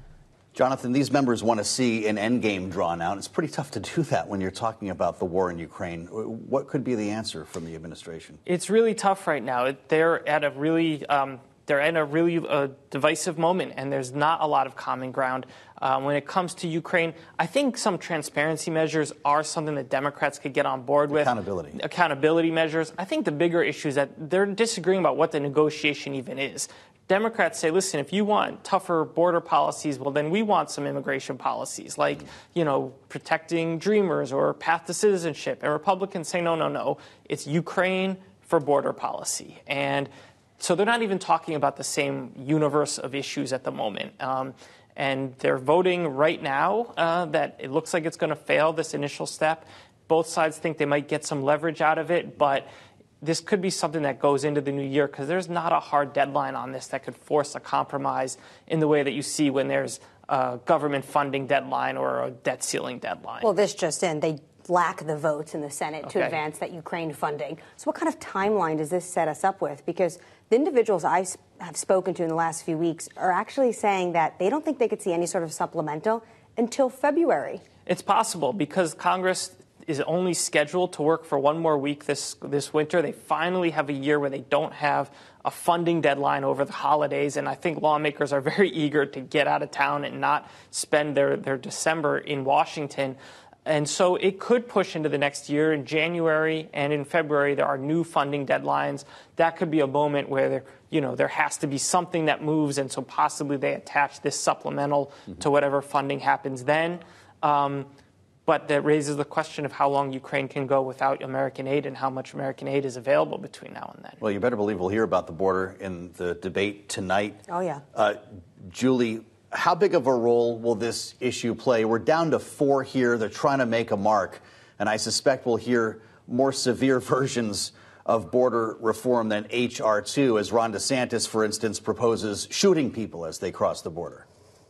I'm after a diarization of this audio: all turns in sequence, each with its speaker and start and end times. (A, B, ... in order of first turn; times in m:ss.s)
0:00.6-0:08.4 A
0:08.5-0:52.7 B
0:21.1-0:21.8 A
0:53.2-1:03.5 B
1:03.4-1:17.6 C
1:06.0-1:06.4 B
1:17.9-1:47.9 B
1:48.5-1:54.2 B
1:54.2-1:57.4 A
1:57.5-1:57.8 C
1:57.9-2:14.3 A